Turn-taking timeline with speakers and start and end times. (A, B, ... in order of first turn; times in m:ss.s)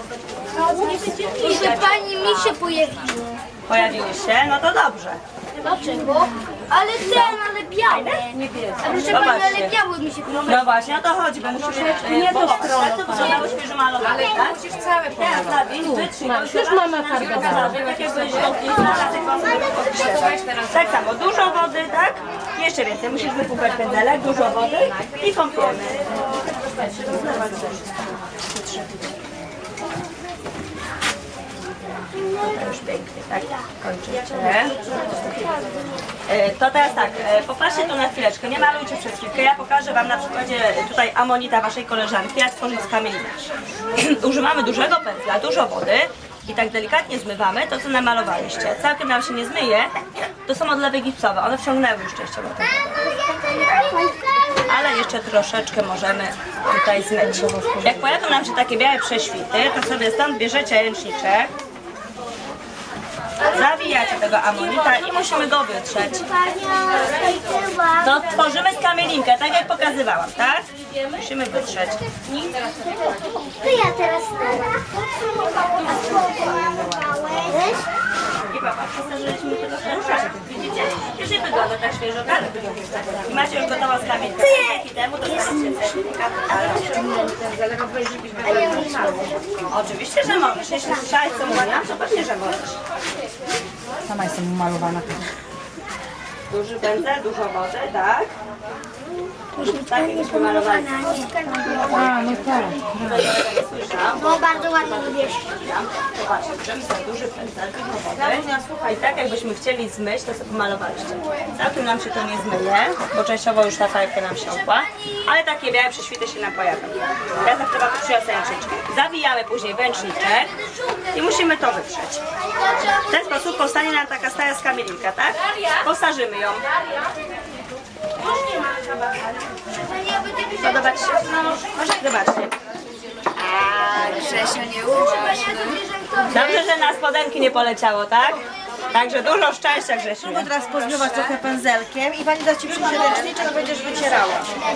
0:00.7-0:03.4 A
0:01.4-0:01.9 B
0:03.7-0:05.2 B
0:05.6-0:10.6 A
0:06.8-0:08.3 B
0:09.0-0:09.8 B
0:10.3-0:26.2 B
0:27.0-0:28.0 B
0:28.6-0:28.8 B
0:32.2-0:35.5 B
0:36.3-0:53.2 B
0:53.7-0:54.2 A
0:54.7-1:01.5 B
1:03.4-1:06.3 B
1:06.3-1:08.3 A
1:08.0-1:12.1 B
1:12.5-1:17.8 A
1:18.5-1:29.1 B
1:28.5-1:29.4 A
1:29.7-1:32.8 B
1:34.1-1:35.2 C
1:36.5-1:38.3 B
1:39.6-1:41.2 B
1:39.6-1:42.1 A
1:41.8-2:02.2 B
1:44.3-1:45.3 A
2:02.8-2:06.7 B
2:10.0-2:10.8 A
2:10.5-2:12.6 B
2:13.5-2:14.7 B
2:14.1-2:16.6 A
2:16.3-2:21.4 B
2:20.6-2:24.4 C
2:22.7-2:24.2 B